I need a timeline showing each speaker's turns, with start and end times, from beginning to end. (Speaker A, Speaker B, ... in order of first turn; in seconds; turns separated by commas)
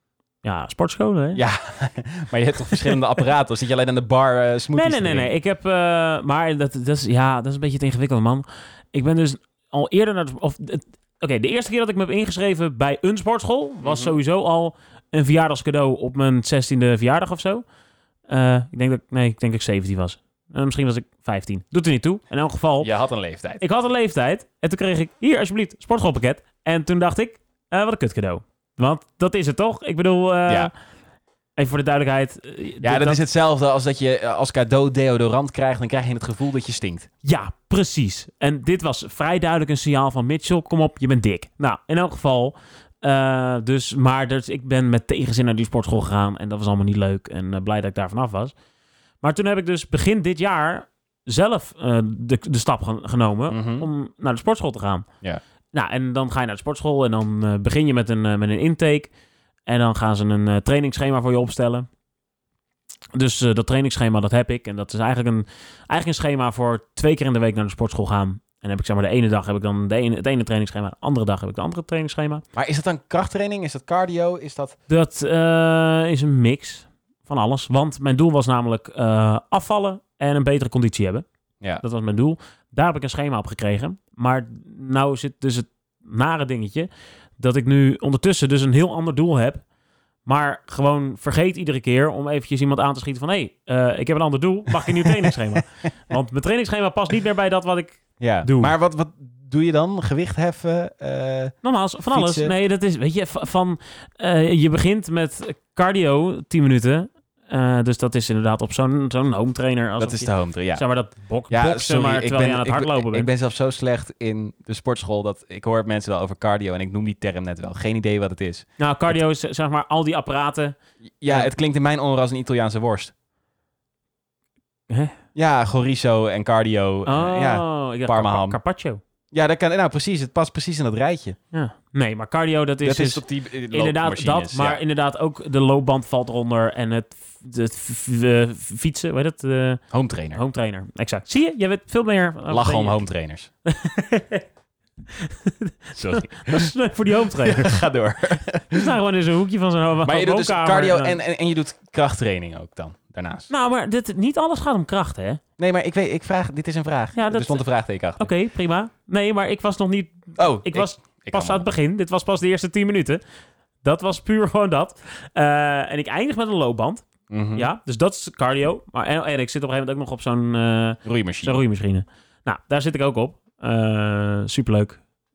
Speaker A: 0.4-1.4, Speaker B: 1.3-5.3, Speaker A: 4.7-17.6, Speaker B: 13.8-14.1, Speaker A: 18.3-22.9, Speaker B: 22.8-23.6, Speaker A: 23.6-30.7, Speaker A: 31.6-33.2, Speaker B: 32.8-37.1, Speaker A: 37.2-48.5, Speaker A: 49.2-55.1, Speaker B: 53.5-53.9, Speaker A: 55.7-59.1, Speaker A: 59.6-61.9, Speaker A: 63.1-72.4, Speaker B: 72.5-74.8, Speaker A: 74.9-81.2, Speaker A: 81.8-86.9, Speaker A: 87.4-89.6, Speaker A: 90.2-98.7, Speaker B: 98.2-101.5, Speaker A: 101.6-113.3, Speaker B: 102.1-102.5, Speaker B: 110.0-110.8, Speaker B: 111.5-119.2, Speaker A: 118.8-121.5, Speaker B: 121.2-123.1, Speaker A: 124.9-125.2, Speaker B: 125.3-128.6, Speaker A: 127.0-129.0, Speaker B: 129.3-131.4, Speaker A: 131.5-139.8, Speaker B: 132.8-134.8, Speaker B: 139.9-140.4, Speaker A: 140.3-143.0, Speaker B: 142.5-143.5, Speaker A: 143.7-144.4, Speaker A: 145.2-147.8, Speaker B: 145.9-146.7, Speaker B: 147.3-148.9, Speaker A: 148.7-151.2, Speaker B: 150.0-153.5, Speaker A: 153.5-155.4, Speaker B: 155.6-158.3, Speaker A: 157.1-157.6, Speaker A: 158.2-163.2, Speaker B: 160.3-161.7, Speaker A: 163.8-175.0, Speaker B: 167.3-167.7, Speaker B: 171.0-171.6